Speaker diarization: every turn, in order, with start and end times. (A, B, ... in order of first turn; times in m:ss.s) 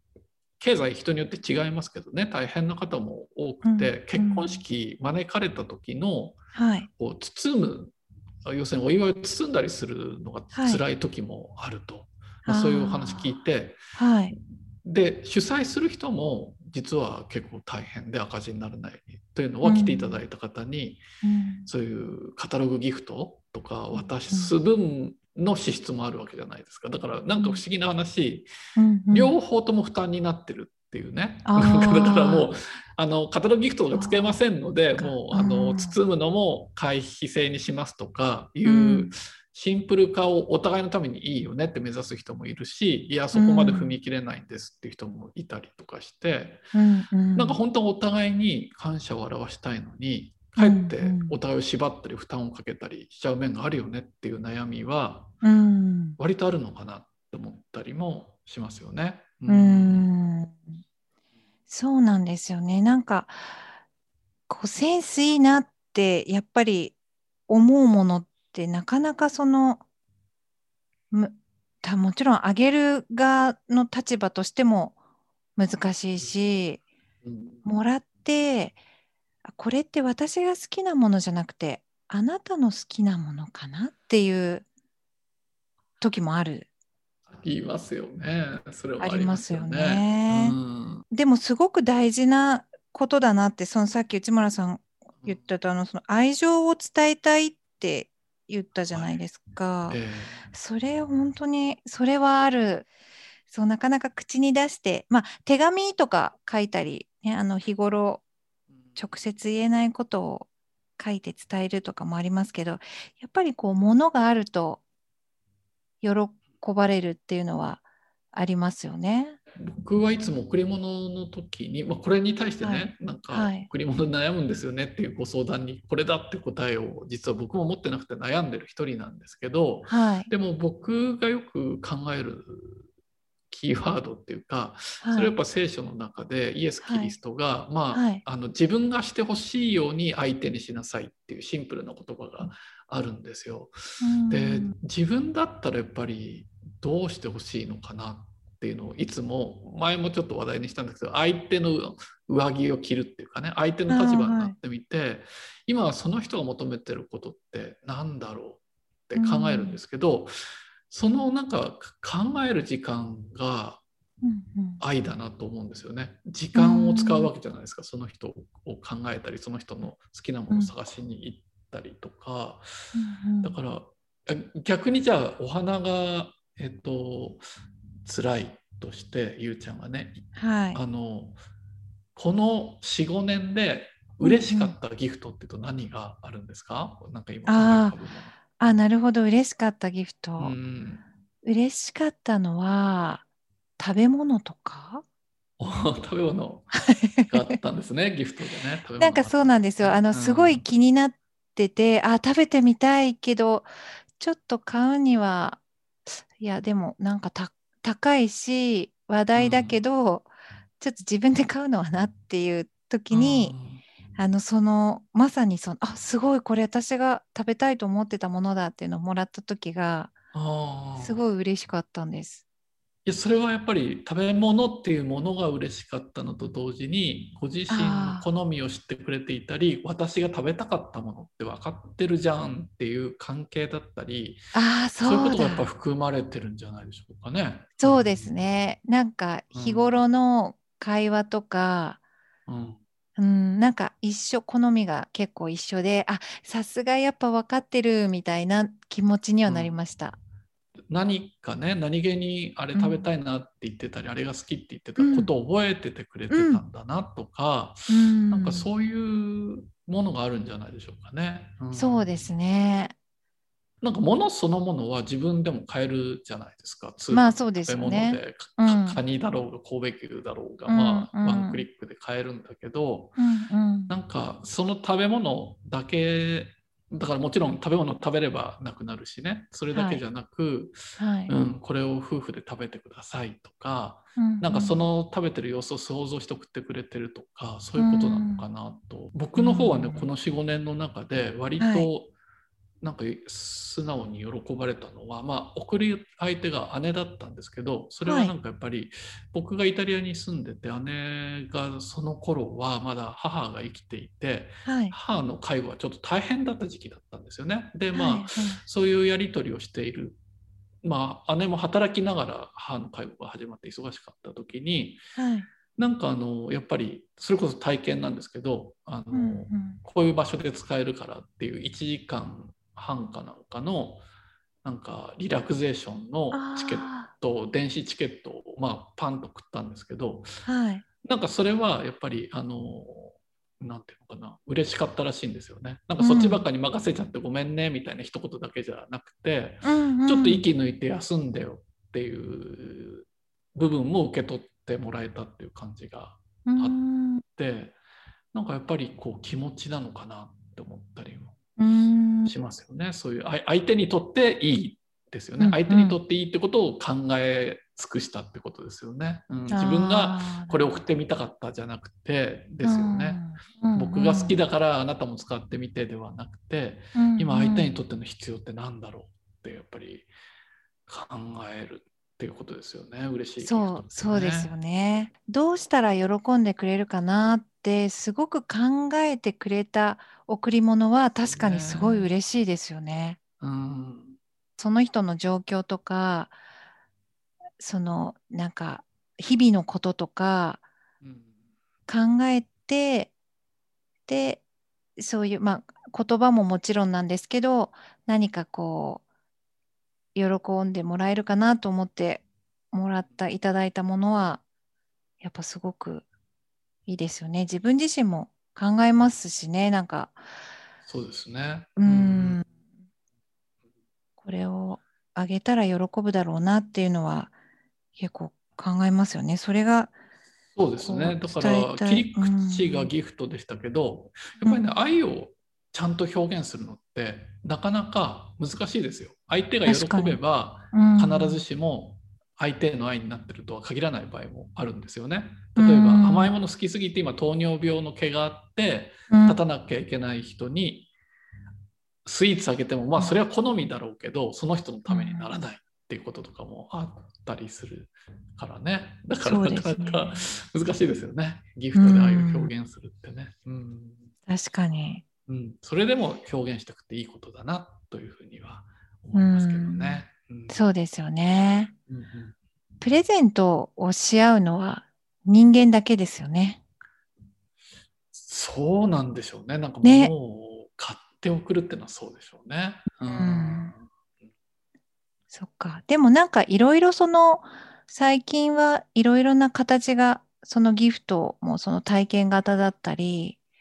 0:00.6-0:06.4 A
0:03.6-0:04.6 B
0:06.5-0:06.9 B
0:06.9-0:07.9 A
0:08.4-0:13.8 A
0:10.5-0:10.8 B
0:12.5-0:13.3 B
0:14.0-0:14.3 B
0:14.8-0:21.0 A
0:19.6-0:20.2 B
0:21.2-0:21.7 B
0:21.7-0:28.5 A
0:23.9-0:24.6 B
0:27.4-0:27.6 B
0:28.8-0:29.4 B
0:29.1-0:46.6 A
0:31.4-0:32.5 B
0:33.9-0:34.4 B
0:35.0-0:36.0 B
0:38.7-0:39.1 B
0:43.3-0:44.0 B
0:46.7-0:47.6 B
0:47.4-0:55.4 A
0:50.6-0:51.4 B
0:55.4-0:56.2 B
0:56.2-1:00.1 A
0:59.5-1:00.8 B
1:01.7-1:03.6 B
1:04.5-1:07.0 B
1:07.5-1:09.8 B
1:11.1-1:15.0 B
1:15.6-1:16.8 B
1:17.2-1:17.7 A
1:17.6-1:18.8 B
1:19.5-1:24.6 B
1:26.0-1:26.7 B
1:27.3-1:31.1 A
1:29.0-1:30.6 B
1:31.1-1:40.0 B
1:38.9-1:39.2 A
1:39.9-1:40.4 A
1:40.5-1:42.9 B
1:43.5-1:48.2 B
1:49.0-1:54.8 B
1:56.0-1:59.4 B
1:59.6-2:12.8 A
2:02.6-2:03.7 B
2:09.9-2:10.3 B
2:13.5-2:23.7 A
2:15.0-2:15.3 B
2:16.8-2:17.1 B
2:17.9-2:18.2 B
2:24.0-2:24.8 B
2:24.3-2:40.4 A
2:33.9-2:34.6 B
2:39.2-2:39.8 B
2:40.9-2:43.8 A
2:44.2-2:44.8 B
2:44.8-2:52.7 A
2:46.6-2:47.3 B
2:52.9-2:53.6 B
2:53.4-2:57.4 A
2:58.0-3:01.4 A
3:00.4-3:00.8 B
3:02.2-3:08.4 A
3:04.2-3:04.8 B
3:07.5-3:08.0 B
3:08.6-3:10.6 B
3:10.4-3:11.0 A
3:11.4-3:13.2 B
3:13.8-3:15.0 B
3:15.6-3:20.6 A
3:16.8-3:17.6 B
3:19.0-3:33.6 B
3:29.4-3:29.8 A
3:33.1-3:33.8 A
3:34.2-3:40.2 B
3:40.3-3:41.2 A
3:41.0-3:42.4 B
3:43.1-3:54.5 A
3:47.7-3:48.3 B
3:54.5-3:55.7 B
3:55.0-3:58.3 A
3:57.8-4:02.0 B
3:59.5-4:00.0 A
4:02.5-4:02.8 A
4:03.2-4:10.2 B
4:09.5-4:09.7 A
4:10.9-4:22.1 A
4:12.7-4:13.1 B
4:15.0-4:15.3 B
4:16.3-4:16.6 B
4:17.9-4:18.7 B
4:21.7-4:22.9 B
4:23.8-4:33.2 A
4:27.1-4:29.0 B
4:30.7-4:31.6 B
4:33.2-4:33.9 B
4:33.9-4:52.1 A
4:39.7-4:40.0 B
4:41.0-4:41.3 B
4:44.2-4:44.8 B
4:47.8-4:48.4 B
4:49.4-4:50.1 B
4:51.6-4:51.9 B
4:52.8-5:10.2 A
4:58.0-4:58.3 B
5:04.6-5:05.0 B
5:07.9-5:08.6 B
5:10.8-5:15.0 A
5:15.2-5:15.5 B
5:15.8-5:24.0 A
5:19.1-5:19.8 B
5:24.6-5:30.3 A
5:26.3-5:27.1 B
5:30.5-5:30.8 B
5:31.0-5:47.8 A
5:36.0-5:36.4 B
5:39.6-5:40.4 B
5:46.5-5:47.2 B
5:48.3-5:51.4 A
5:51.6-5:52.3 B
5:52.3-6:10.1 A
5:55.4-5:56.0 B
5:59.5-6:00.8 B
6:02.6-6:04.4 B
6:07.0-6:07.7 B
6:10.9-6:14.5 A
6:13.4-6:23.2 B
6:21.2-6:22.1 A
6:23.4-6:24.2 A
6:24.6-6:26.4 B
6:27.6-6:30.6 B
6:31.0-6:31.3 A
6:31.9-6:33.1 B
6:34.1-6:34.4 B
6:35.0-6:39.0 B
6:40.2-6:44.4 B
6:45.2-6:46.1 B
6:46.9-6:50.2 B
6:50.9-6:52.4 A
6:51.8-6:52.5 B
6:54.2-6:57.3 B
6:58.0-6:59.9 B
7:00.6-7:20.9 A
7:00.8-7:02.9 B
7:04.4-7:04.7 B
7:09.7-7:10.2 B
7:10.7-7:11.4 B
7:15.6-7:16.3 B
7:19.1-7:19.4 B
7:22.0-7:34.1 A
7:24.9-7:25.3 B
7:29.2-7:30.3 B
7:31.7-7:32.5 B
7:34.3-7:35.0 B
7:35.3-7:40.6 A
7:39.2-7:41.7 B
7:41.9-7:42.4 A
7:42.8-7:46.6 B
7:48.1-7:53.9 A
7:49.8-7:50.1 B
7:53.0-7:53.7 B
7:55.3-8:03.4 B